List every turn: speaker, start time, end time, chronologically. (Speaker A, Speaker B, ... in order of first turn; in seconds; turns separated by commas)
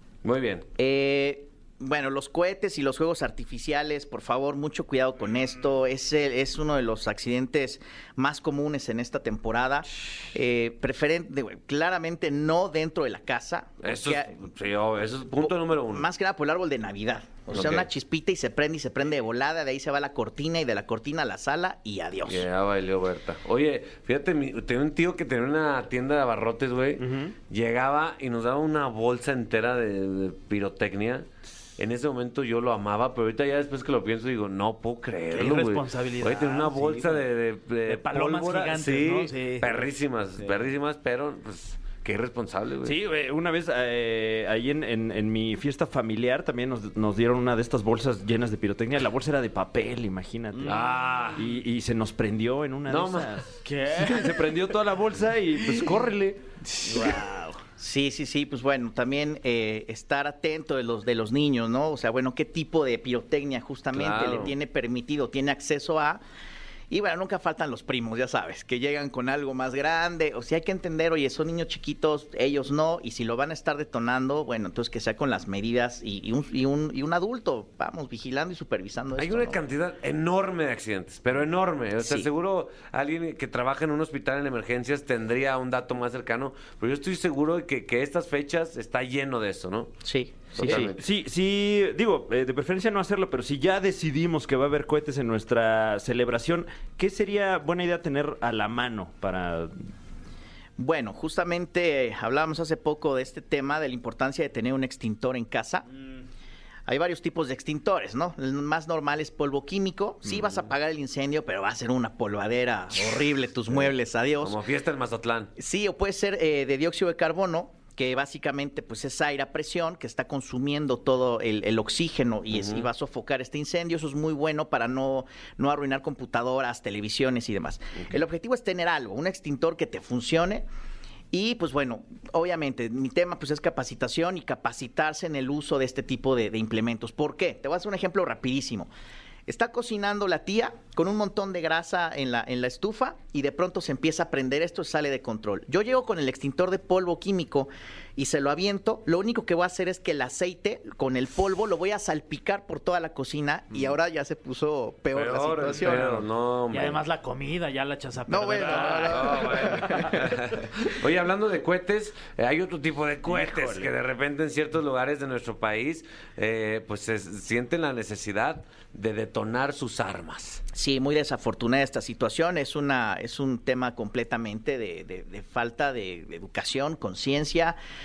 Speaker A: 0.2-0.7, Speaker B: 0.8-14.4, Speaker A: 13.8-16.1, Speaker B: 15.4-22.5, Speaker A: 17.5-17.9, Speaker A: 22.3-43.0, Speaker C: 27.0-27.3, Speaker D: 35.3-37.3, Speaker D: 37.9-39.8, Speaker D: 40.4-40.7, Speaker C: 42.8-50.8, Speaker D: 50.5-51.4, Speaker A: 50.6-51.5, Speaker C: 51.4-57.2, Speaker A: 52.9-53.4, Speaker D: 53.6-54.5, Speaker D: 56.6-57.6, Speaker B: 57.8-66.2, Speaker A: 63.9-64.5, Speaker B: 66.9-79.6, Speaker A: 79.2-89.9, Speaker B: 82.0-82.3, Speaker B: 90.0-90.9, Speaker A: 90.5-91.0, Speaker C: 90.5-99.8, Speaker B: 100.8-105.9, Speaker B: 106.9-114.6, Speaker A: 114.4-115.5, Speaker B: 115.6-130.7, Speaker A: 122.5-122.9, Speaker B: 131.3-138.9, Speaker B: 139.5-156.2, Speaker A: 155.1-157.0, Speaker D: 156.7-160.1, Speaker B: 158.3-160.3, Speaker A: 159.1-170.6, Speaker B: 170.7-177.8